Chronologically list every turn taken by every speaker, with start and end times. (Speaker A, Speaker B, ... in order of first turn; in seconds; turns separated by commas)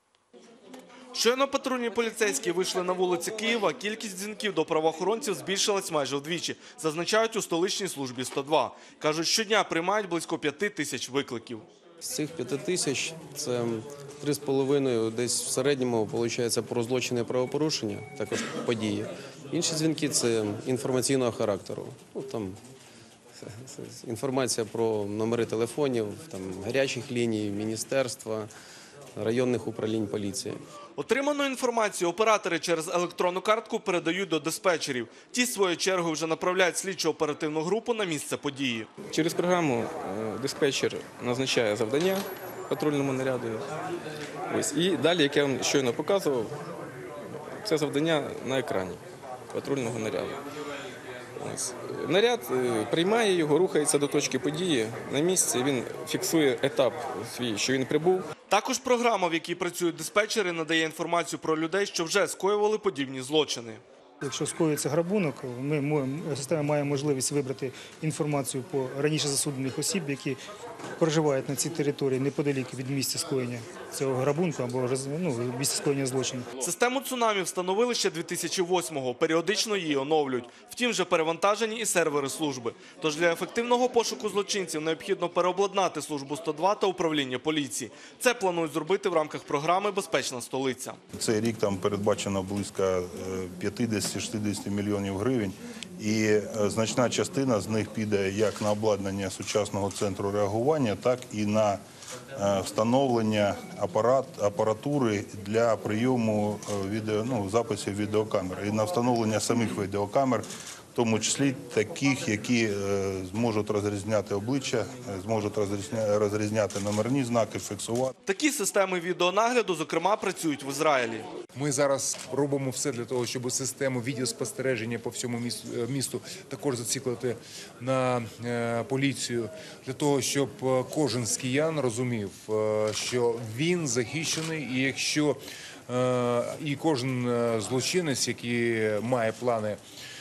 Speaker A: 1.1-11.6, Speaker B: 12.0-22.6, Speaker B: 23.4-28.5, Speaker B: 29.1-30.6, Speaker A: 31.0-38.9, Speaker C: 39.1-43.7, Speaker C: 44.5-46.5, Speaker C: 47.6-49.0, Speaker C: 49.5-50.4, Speaker C: 51.4-58.3, Speaker A: 58.5-63.8, Speaker D: 64.2-70.4, Speaker D: 71.0-76.5, Speaker A: 76.6-91.0, Speaker E: 91.1-101.8, Speaker E: 102.3-118.1, Speaker A: 118.2-121.3, Speaker F: 121.5-139.8